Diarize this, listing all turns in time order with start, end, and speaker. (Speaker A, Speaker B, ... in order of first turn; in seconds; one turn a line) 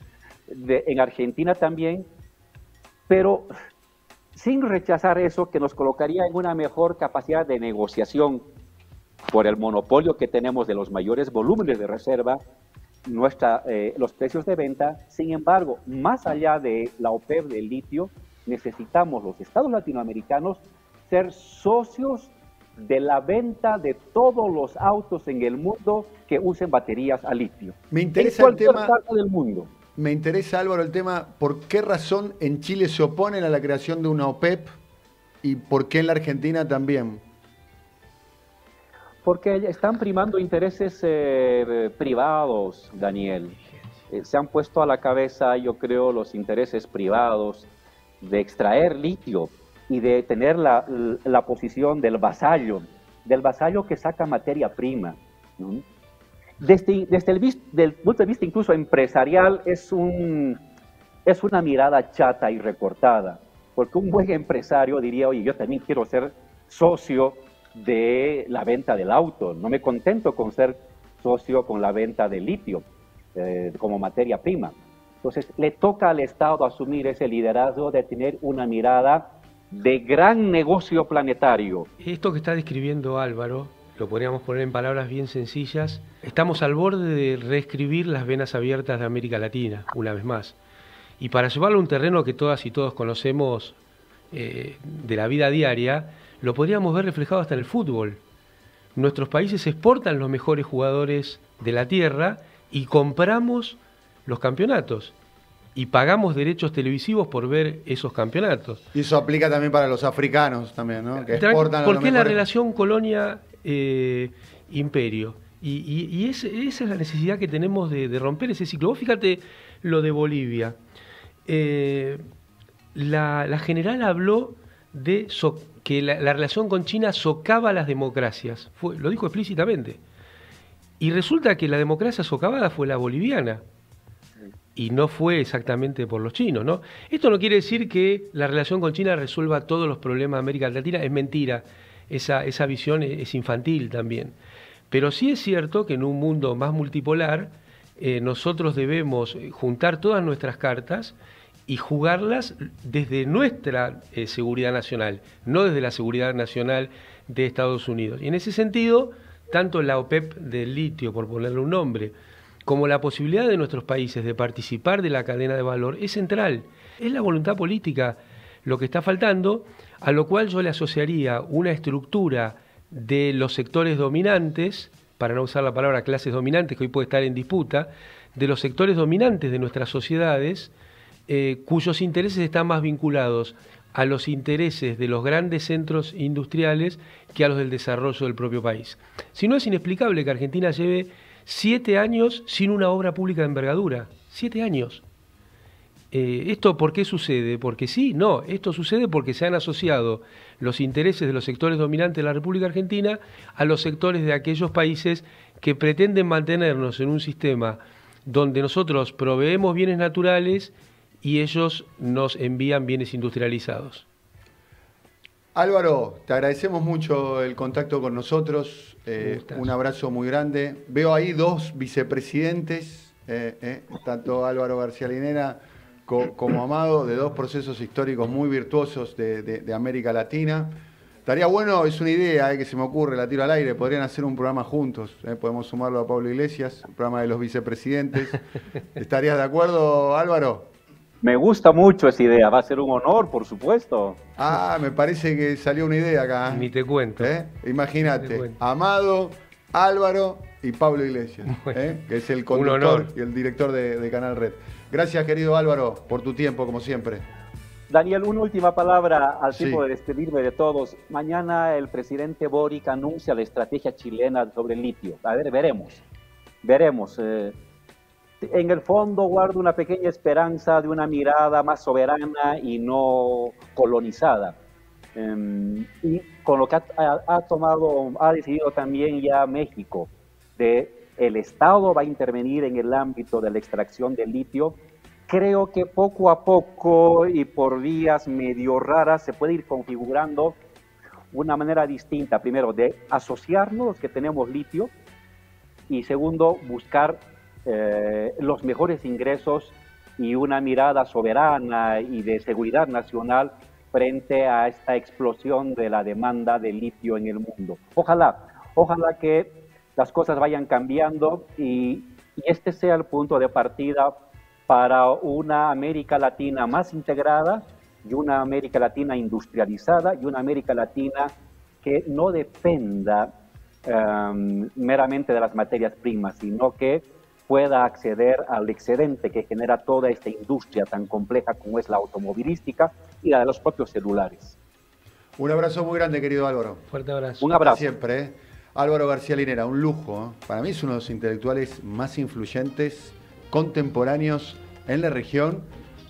Speaker A: 0.5-2.0
Speaker A: 3.1-3.5
Speaker A: 4.3-8.4
Speaker A: 9.3-12.4
Speaker A: 13.1-29.7
Speaker B: 27.9-28.9
Speaker B: 29.9-34.8
Speaker B: 35.4-37.2
Speaker A: 39.2-43.6
Speaker A: 44.1-47.7
Speaker A: 48.2-55.8
Speaker A: 56.6-60.6
Speaker A: 61.2-72.8
Speaker A: 73.3-81.9
Speaker C: 82.0-90.5
Speaker C: 91.2-93.8
Speaker C: 94.3-98.2
Speaker C: 99.0-105.1
Speaker C: 105.8-108.8
Speaker B: 108.9-112.4
Speaker C: 111.2-120.8
Speaker C: 121.5-122.2
Speaker C: 122.9-130.0
Speaker C: 131.0-133.6
Speaker C: 134.8-144.3
Speaker C: 144.9-151.1
Speaker C: 151.7-162.1
Speaker C: 162.6-180.7
Speaker C: 181.3-195.0
Speaker C: 196.1-214.0
Speaker B: 215.5-238.4
Speaker C: 219.2-219.7
Speaker B: 238.9-240.7
Speaker A: 241.2-244.2
Speaker B: 244.4-257.2
Speaker C: 246.5-247.3
Speaker C: 248.1-248.6
Speaker C: 251.5-251.8
Speaker C: 252.5-253.1
Speaker A: 257.9-266.0
Speaker B: 259.5-259.8
Speaker A: 266.6-267.5
Speaker A: 268.4-274.6
Speaker A: 275.1-284.8
Speaker A: 285.3-290.6
Speaker A: 291.3-294.9
Speaker A: 295.9-314.1
Speaker A: 314.7-321.3
Speaker A: 321.8-323.3
Speaker A: 323.9-334.6
Speaker B: 335.4-336.8
Speaker C: 336.9-337.4
Speaker A: 337.4-337.8
Speaker B: 337.5-345.7